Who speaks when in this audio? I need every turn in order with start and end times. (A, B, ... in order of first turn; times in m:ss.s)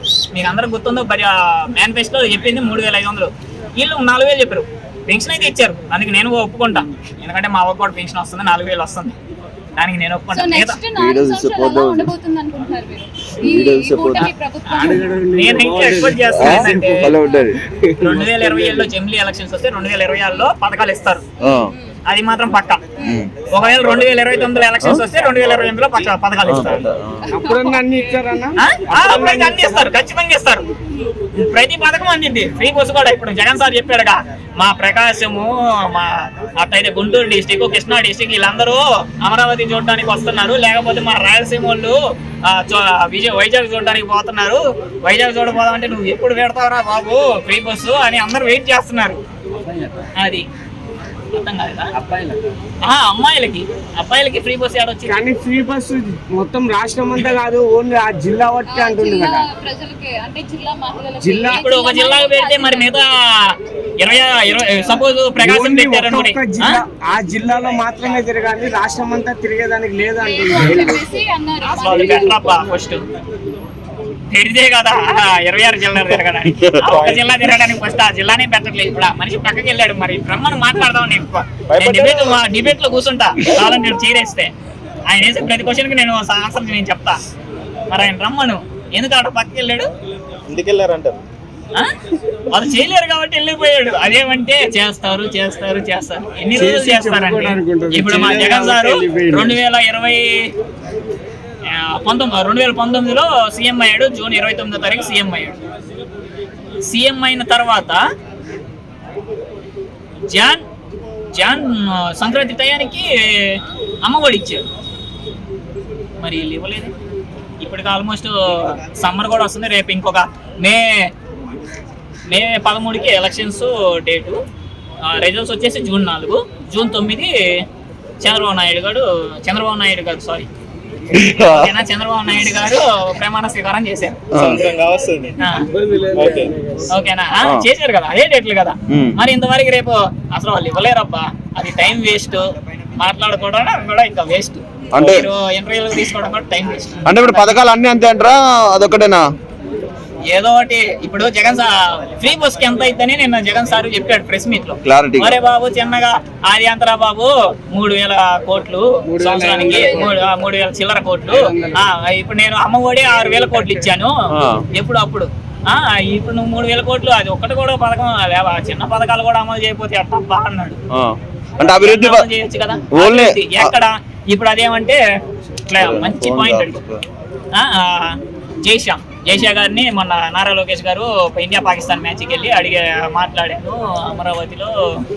0:00.3-0:09.2 A
0:09.8-0:10.8 A
0:10.3-0:15.1 B
0:11.0-0:12.1 C
0:13.4-0:14.3 C
0:14.2-0:17.2 A
0:14.8-0:18.9 D
0:16.1-0:17.6 C
0:18.0-0:21.3 A
0:21.4-0:21.7 C
0:21.4-0:21.9 B
0:22.1-0:22.9 A
0:23.0-0:23.3 C
0:23.5-0:26.9 A
0:26.5-0:27.3 C
0:27.3-0:29.9 D
0:27.3-0:28.1 B
0:28.6-0:30.6 A
0:31.4-0:49.2 A
0:49.6-0:50.1 D
0:50.2-0:50.4 A
0:51.3-0:51.9 A
0:51.9-0:52.4 D
0:52.8-0:55.2 A
0:55.0-0:59.5 D
0:58.7-1:02.9 B
1:01.2-1:01.6 D
1:01.5-1:06.8 A
1:05.4-1:11.1 D
1:10.2-1:12.6 B
1:11.7-1:13.0 A
1:14.3-1:24.5 A
1:16.6-1:16.9 C
1:16.9-1:17.4 E
1:21.7-1:22.5 E
1:25.1-1:27.2 A
1:27.9-1:29.9 A
1:30.5-1:31.2 E
1:32.5-1:40.5 A
1:36.5-1:39.6 D
1:41.7-1:45.6 A
1:46.8-1:48.0 A
1:50.3-1:50.6 A
1:51.3-1:54.6 A
1:56.2-1:56.9 A
1:57.6-2:01.1 A
2:02.3-2:04.4 A
2:05.1-2:07.3 A
2:08.2-2:10.5 A
2:11.1-2:11.7 C
2:11.2-2:14.2 A
2:14.3-2:14.6 C
2:14.4-2:15.3 E
2:15.4-2:15.7 A
2:15.6-2:16.9 D
2:16.2-2:16.5 E
2:16.9-2:27.6 A
2:17.4-2:17.7 C
2:18.9-2:19.2 C
2:25.0-2:25.3 C
2:27.0-2:29.3 C
2:30.3-2:44.2 A
2:34.8-2:35.4 C
2:39.1-2:40.2 D
2:41.3-2:41.8 D
2:44.3-2:44.6 C
2:44.7-2:50.8 A
2:50.9-2:52.3 C
2:51.6-2:55.0 A
2:52.9-2:53.7 C
2:55.7-2:56.8 A
2:55.8-2:57.0 C
2:57.5-3:04.7 A